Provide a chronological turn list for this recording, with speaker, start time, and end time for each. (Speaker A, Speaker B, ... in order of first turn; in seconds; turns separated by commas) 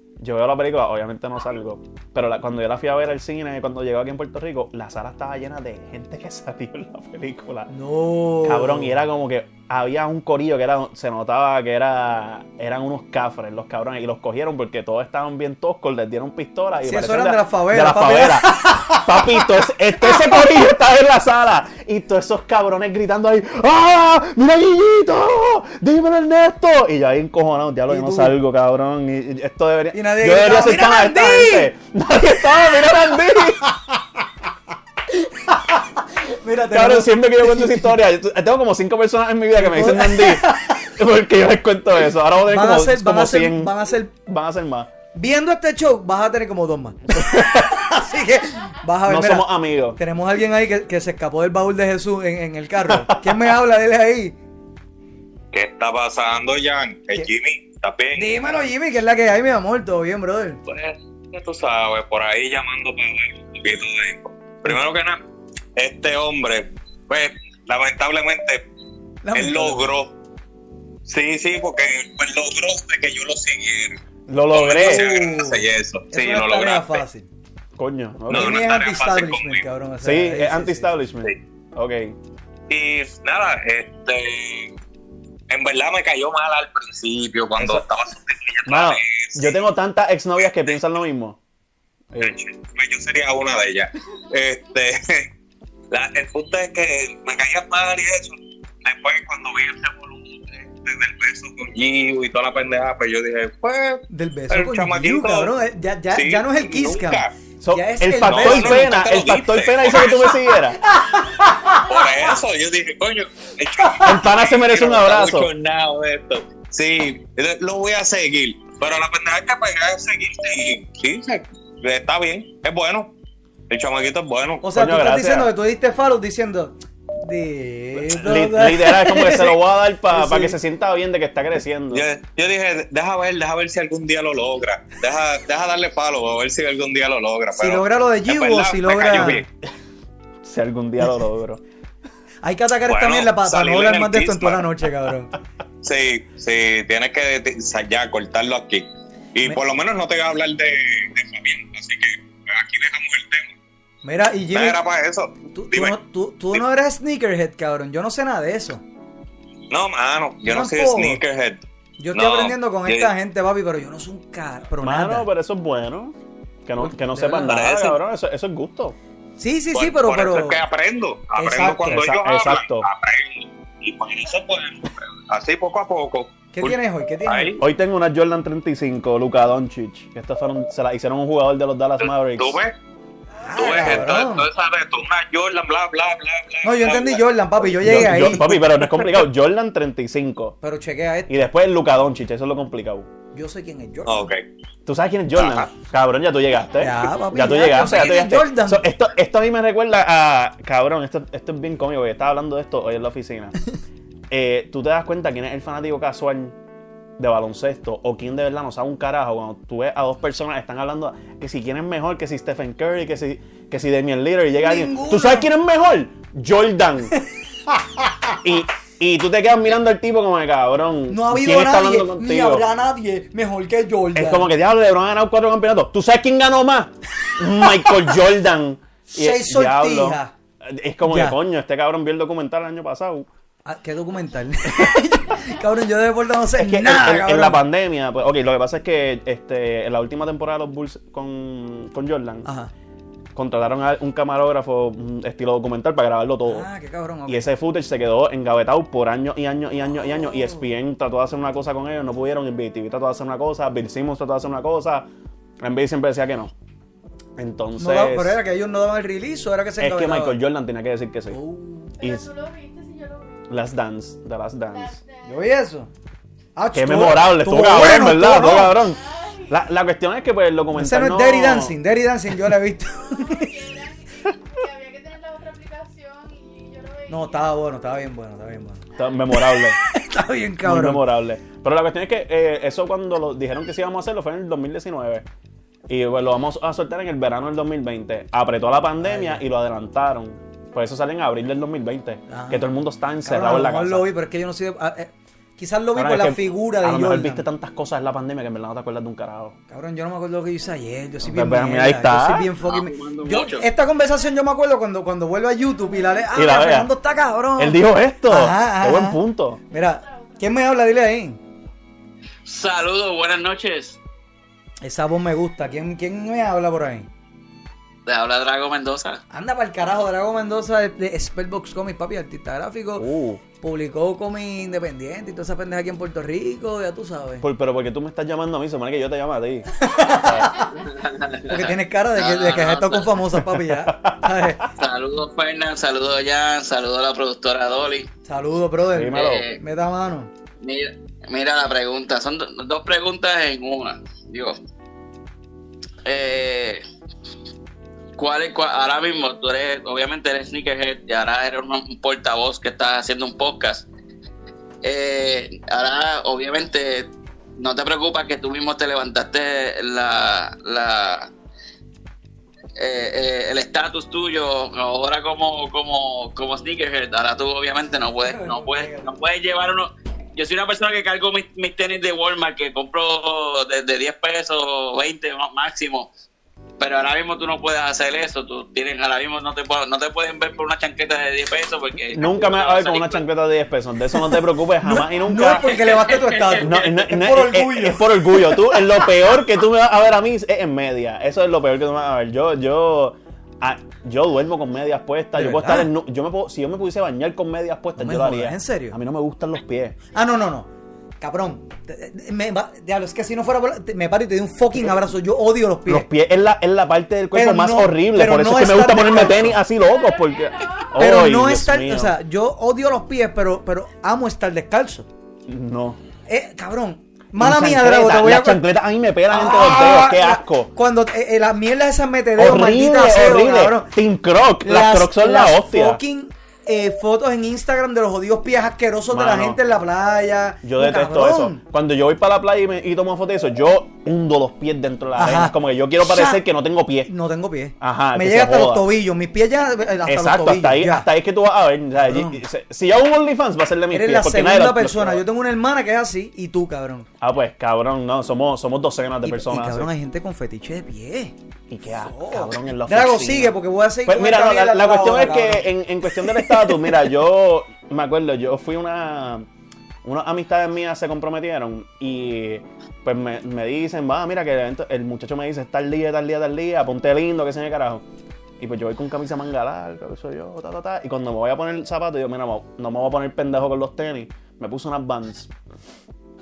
Speaker A: 0.2-7.7, Speaker B: 7.7-9.0, Speaker A: 8.4-33.7, Speaker B: 16.8-20.4, Speaker B: 27.9-28.4, Speaker B: 29.9-31.7, Speaker B: 35.2-38.0, Speaker A: 36.7-44.9, Speaker B: 39.5-40.9, Speaker B: 42.5-44.1, Speaker B: 45.1-49.5, Speaker A: 47.1-47.9, Speaker A: 49.1-50.0, Speaker B: 50.0-54.4, Speaker A: 52.9-53.5, Speaker C: 55.5-58.3, Speaker B: 58.1-60.6, Speaker C: 60.7-65.2, Speaker C: 65.8-68.6, Speaker B: 69.2-69.9, Speaker C: 69.3-70.1, Speaker C: 71.1-74.0, Speaker A: 74.3-75.1, Speaker C: 74.5-77.0, Speaker B: 74.6-77.3, Speaker A: 77.8-78.7, Speaker C: 78.3-79.6, Speaker B: 78.3-80.9, Speaker A: 80.0-82.2, Speaker C: 82.7-84.7, Speaker C: 85.5-89.6, Speaker A: 87.6-87.8, Speaker A: 88.7-91.4, Speaker C: 92.2-95.3, Speaker C: 95.9-105.5, Speaker B: 104.1-108.9, Speaker C: 106.1-107.3, Speaker A: 107.6-110.8, Speaker C: 108.2-110.4, Speaker B: 111.0-111.8, Speaker C: 111.8-123.1, Speaker A: 114.0-115.5, Speaker C: 123.7-124.6, Speaker B: 124.6-129.6, Speaker A: 124.7-125.5, Speaker A: 128.0-132.1, Speaker B: 130.1-130.6, Speaker C: 131.9-139.5, Speaker B: 137.6-139.4, Speaker A: 140.4-141.6, Speaker B: 142.4-145.3, Speaker C: 142.9-144.7, Speaker C: 145.8-153.5, Speaker B: 154.1-154.8, Speaker C: 154.5-155.9, Speaker B: 155.5-158.8, Speaker C: 159.7-161.6, Speaker B: 160.4-161.2, Speaker B: 162.0-165.3, Speaker C: 162.1-163.1, Speaker A: 164.8-169.0, Speaker B: 166.8-167.5, Speaker C: 167.3-168.0, Speaker B: 169.4-170.6, Speaker C: 169.7-177.6, Speaker B: 171.4-172.0, Speaker A: 171.9-172.9, Speaker B: 176.5-177.6, Speaker A: 177.6-182.6, Speaker C: 182.0-182.8, Speaker B: 183.4-184.5, Speaker C: 183.5-187.8, Speaker B: 186.6-188.8, Speaker A: 187.8-190.6, Speaker B: 190.6-191.5, Speaker A: 191.3-193.1, Speaker B: 193.3-194.3, Speaker C: 194.1-194.4, Speaker A: 194.9-203.6, Speaker C: 195.3-195.7, Speaker B: 196.8-198.9, Speaker A: 204.3-206.6, Speaker A: 207.2-217.1, Speaker B: 214.6-215.5, Speaker B: 217.7-218.4, Speaker A: 218.4-222.7, Speaker B: 221.1-224.5, Speaker A: 224.2-233.3, Speaker B: 229.1-230.3, Speaker B: 231.1-231.4, Speaker B: 233.7-237.7, Speaker A: 236.6-242.5, Speaker B: 242.4-242.7, Speaker A: 243.3-246.7, Speaker B: 246.5-247.5, Speaker A: 247.3-255.1, Speaker B: 250.3-250.6, Speaker A: 255.6-256.5, Speaker A: 257.4-258.4, Speaker B: 257.8-260.4, Speaker A: 259.8-261.4, Speaker B: 261.3-261.9, Speaker D: 262.0-263.6, Speaker A: 262.0-262.3, Speaker A: 263.5-265.0, Speaker D: 264.6-265.5, Speaker B: 265.3-265.9, Speaker B: 266.6-268.8, Speaker A: 266.7-271.8, Speaker D: 268.5-269.6, Speaker B: 270.7-273.5, Speaker D: 273.0-277.6, Speaker B: 277.1-281.0, Speaker A: 279.0-279.8, Speaker A: 280.6-285.3, Speaker A: 285.9-294.1, Speaker B: 289.0-289.4, Speaker B: 292.3-292.7, Speaker B: 293.2-297.5, Speaker A: 295.9-299.6, Speaker B: 299.7-311.4, Speaker A: 301.2-302.5, Speaker E: 302.6-303.6, Speaker D: 305.7-306.2, Speaker A: 306.3-306.9, Speaker A: 307.6-309.6, Speaker D: 309.7-310.5, Speaker E: 312.4-314.0, Speaker B: 314.8-317.1, Speaker E: 318.1-319.2, Speaker B: 319.3-323.1, Speaker A: 323.0-323.4, Speaker B: 323.6-327.4, Speaker A: 327.4-330.5, Speaker B: 329.8-330.7, Speaker E: 330.8-333.2, Speaker B: 331.5-334.6, Speaker A: 333.4-334.7, Speaker E: 334.8-338.1, Speaker B: 338.3-340.3, Speaker A: 338.9-339.5, Speaker E: 339.1-339.6, Speaker E: 340.6-344.6, Speaker E: 346.1-346.8, Speaker E: 348.2-353.9, Speaker E: 354.8-361.3, Speaker E: 362.8-376.1, Speaker B: 368.2-369.1, Speaker E: 376.8-383.3, Speaker A: 382.1-385.8, Speaker B: 384.8-388.6, Speaker E: 385.3-386.7, Speaker A: 386.6-400.0, Speaker B: 395.4-395.9, Speaker B: 398.0-399.0, Speaker B: 400.1-400.7, Speaker B: 401.2-406.1, Speaker A: 405.9-412.2, Speaker B: 407.3-409.6, Speaker D: 409.7-410.9, Speaker B: 410.9-415.1, Speaker A: 415.5-416.0, Speaker B: 416.3-418.6, Speaker A: 417.4-420.7, Speaker B: 419.3-423.9, Speaker A: 422.4-426.0, Speaker B: 424.6-431.6, Speaker A: 429.1-429.6, Speaker A: 430.6-437.1, Speaker B: 435.2-436.4, Speaker B: 437.1-441.1, Speaker A: 437.8-438.9, Speaker A: 440.1-445.2, Speaker B: 442.0-442.4, Speaker B: 443.9-447.1, Speaker A: 447.2-449.9, Speaker B: 449.2-451.3, Speaker A: 451.7-459.5, Speaker B: 451.9-456.9, Speaker A: 460.0-468.0, Speaker A: 468.6-475.5